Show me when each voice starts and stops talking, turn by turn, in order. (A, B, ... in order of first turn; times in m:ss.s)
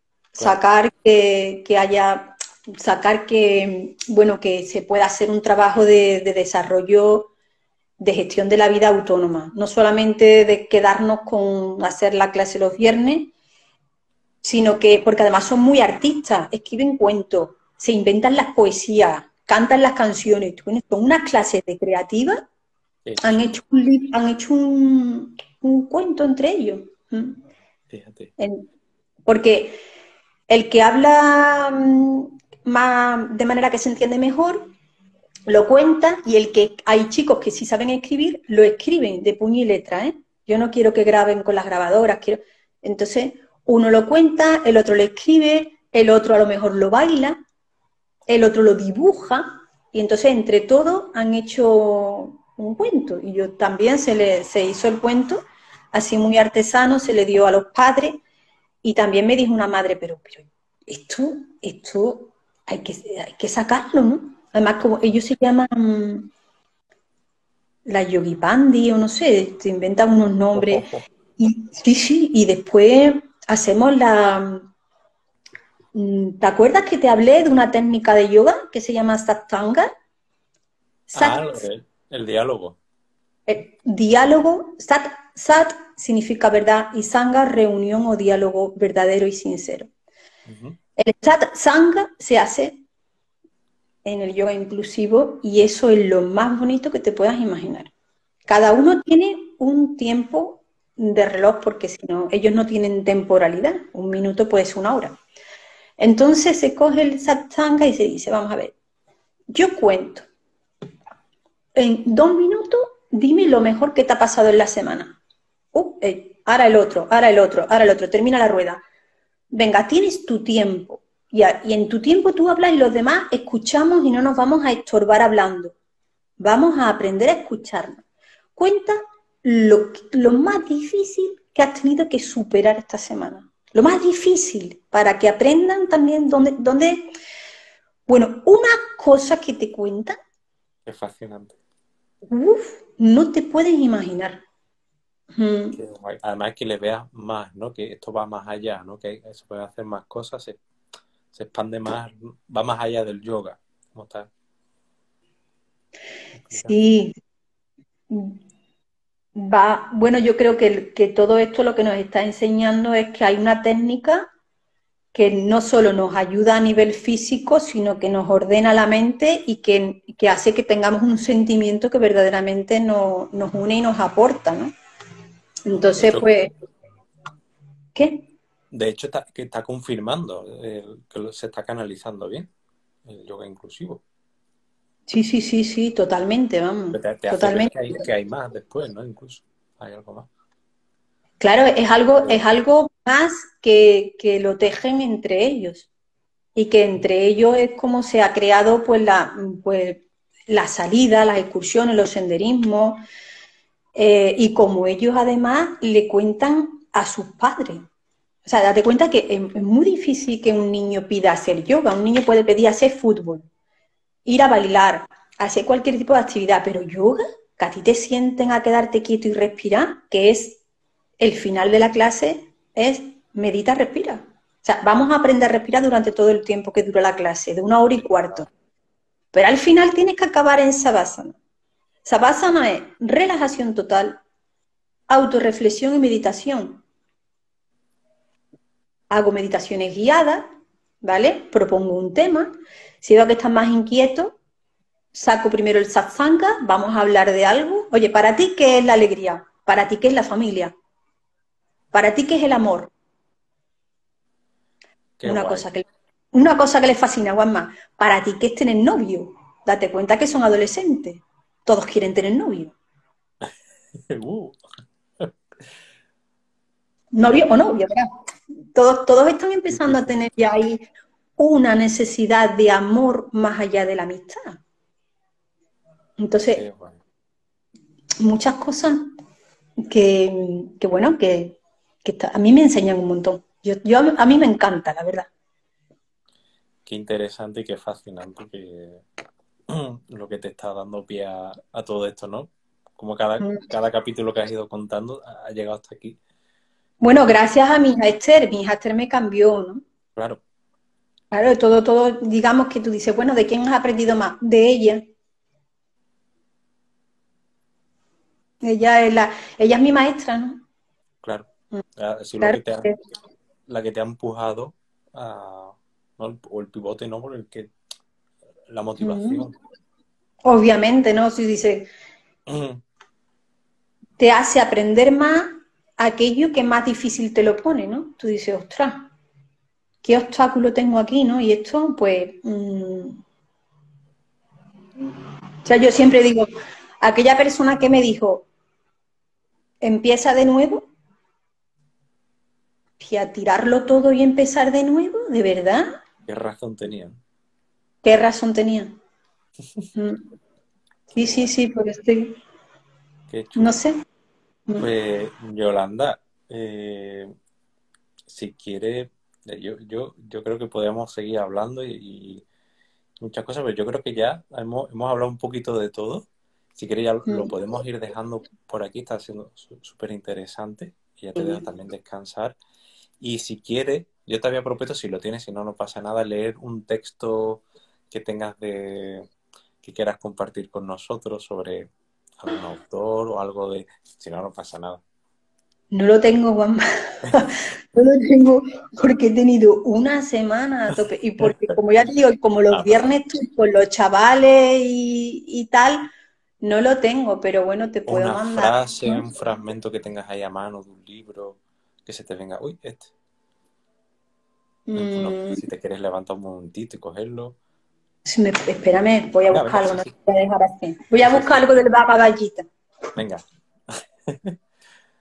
0:00.4-0:07.3 A
0:08.0-0:13.3 A
0:14.4-0:22.4 A
0:23.0-0:23.5 B
0:23.2-0:27.4 A
0:27.9-0:28.3 B
0:28.4-0:28.7 A
0:29.2-0:29.8 A
0:30.5-0:34.7 A
0:35.5-0:47.4 A
0:48.3-0:58.2 A
0:58.8-1:06.3 A
1:07.8-1:10.8 A
1:10.5-1:11.0 B
1:11.4-1:14.7 A
1:15.9-1:19.9 A
1:21.1-1:21.6 A
1:21.1-1:22.8 B
1:23.5-1:29.9 A
1:30.4-1:30.8 B
1:31.0-1:32.8 A
1:34.0-1:37.9 A
1:38.5-1:45.2 A
1:46.0-1:48.7 A
1:49.5-1:50.3 A
1:51.7-1:55.2 A
1:55.7-1:58.8 A
1:59.5-2:05.7 A
2:06.4-2:08.0 A
2:08.6-2:17.0 A
2:18.1-2:20.2 A
2:20.8-2:21.6 B
2:22.3-2:24.4 A
2:25.4-2:25.8 A
2:25.7-2:30.6 B
2:31.3-2:34.3 B
2:36.5-2:36.7 B
2:36.6-2:37.2 A
2:38.1-2:38.4 A
2:39.3-2:44.3 A
2:45.1-2:54.7 A
2:55.6-2:56.5 A
2:55.9-2:56.3 B
2:57.9-2:58.2 A
2:58.7-3:02.5 B
3:03.0-3:04.0 B
3:05.1-3:08.0 A
3:06.9-3:10.3 B
3:11.4-3:15.9 A
3:16.6-3:23.0 A
3:23.9-3:27.8 A
3:28.4-3:33.5 A
3:34.2-3:40.6 A
3:41.2-3:48.5 A
3:47.9-3:48.4 B
3:49.3-3:51.4 A
3:52.0-3:54.2 A
3:55.1-3:56.8 A
3:59.1-4:00.4 A
4:01.0-4:04.4 A
4:05.1-4:10.7 A
4:11.9-4:12.9 A
4:15.2-4:15.7 B
4:15.2-4:22.7 A
4:23.4-4:24.6 B
4:27.1-4:28.1 A
4:27.2-4:27.6 B
4:28.7-4:30.9 A
4:29.7-4:30.2 B
4:31.4-4:34.6 A
4:36.2-4:36.6 A
4:36.5-4:37.0 B
4:38.2-4:39.1 A
4:39.8-4:45.3 A
4:46.8-4:49.0 B
4:49.7-4:56.2 B
4:53.4-4:53.6 A
4:57.0-4:59.8 A
5:00.2-5:00.4 B
5:01.3-5:05.1 A
5:08.6-5:10.6 A
5:11.2-5:12.9 B
5:12.4-5:13.0 A
5:13.7-5:17.7 B
5:18.7-5:19.5 B
5:19.0-5:19.4 A
5:20.4-5:21.9 A
5:22.5-5:22.8 B
5:24.2-5:29.1 A
5:30.0-5:33.2 A
5:35.6-5:38.5 A
5:39.8-5:40.9 A
5:43.0-5:46.0 A
5:46.2-5:47.2 B
5:48.0-5:49.0 A
5:49.9-5:50.3 A
5:51.1-5:52.4 A
5:51.2-5:51.5 B
5:53.3-5:53.8 B
5:53.6-5:54.0 A
5:54.8-5:57.3 B
5:58.3-6:02.4 B
6:03.2-6:12.6 B
6:07.2-6:07.5 A
6:11.4-6:11.6 A
6:13.2-6:19.3 B
6:19.8-6:21.9 B
6:22.4-6:25.0 B
6:25.9-6:36.1 A
6:31.4-6:31.8 B
6:32.7-6:33.1 B
6:36.6-6:39.2 A
6:38.1-6:43.1 B
6:44.9-6:45.6 A
6:44.9-6:47.6 B
6:48.2-6:52.7 A
6:49.5-6:50.1 B
6:51.2-6:51.7 B
6:53.2-6:54.6 B